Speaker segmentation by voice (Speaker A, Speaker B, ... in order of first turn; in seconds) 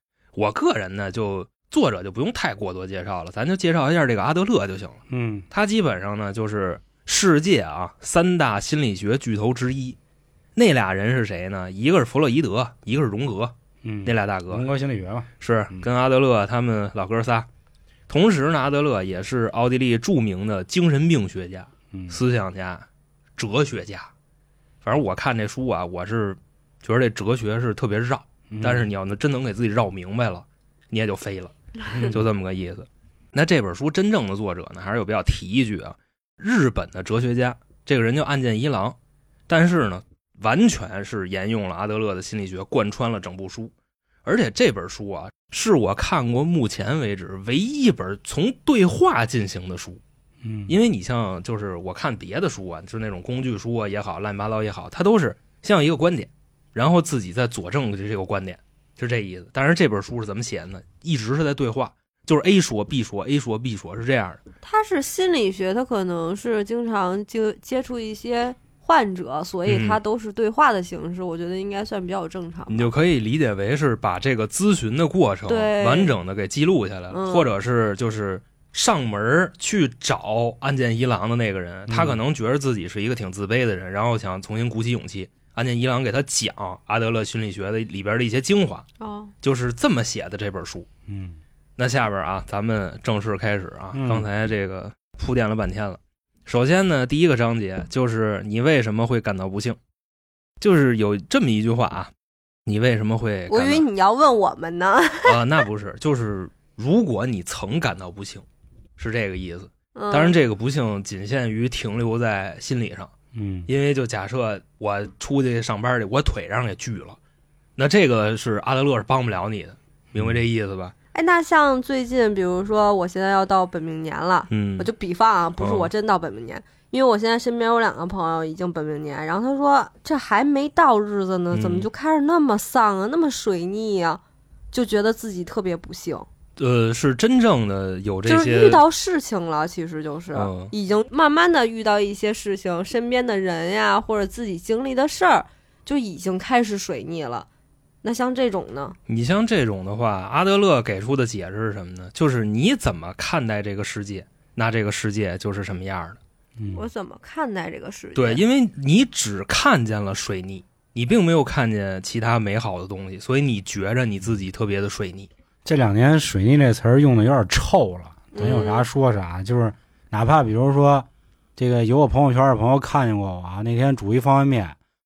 Speaker A: 0.3-5.0, 5.5-10.0, 10.6-13.5, 14.1-14.6, 15.4-17.5, 18.1-22.9, 23.4-24.1, 24.8-39.0, 39.5-43.7, 44.2-50.0, 50.7-64.4, 69.7-70.0, 72.7-88.8, 89.4-90.9, 91.8-99.8, 100.6-102.1, 102.7-103.8, 105.2-108.4, 109.0-113.1, 113.7-117.2, 117.8-120.9, 124.5-124.9, 125.6-125.9, 131.5-131.9, 136.6-138.8, 140.3-140.7, 149.1-156.2, 158.1-165.3
Speaker B: 5.1-5.5, 13.8-15.9, 21.9-22.2, 28.5-28.9, 31.9-32.2, 50.4-50.8, 81.9-82.2, 91.1-91.4, 93.9-94.3, 113.3-113.7, 156.6-156.8, 165.6-174.8
Speaker C: 64.6-72.9, 75.5-76.1, 77.1-77.5, 89.0-89.3, 103.5-105.4, 109.9-110.4, 121.1-134.2, 134.7-136.3, 138.2-147.5, 148.0-149.0, 156.7-158.4, 168.3-168.8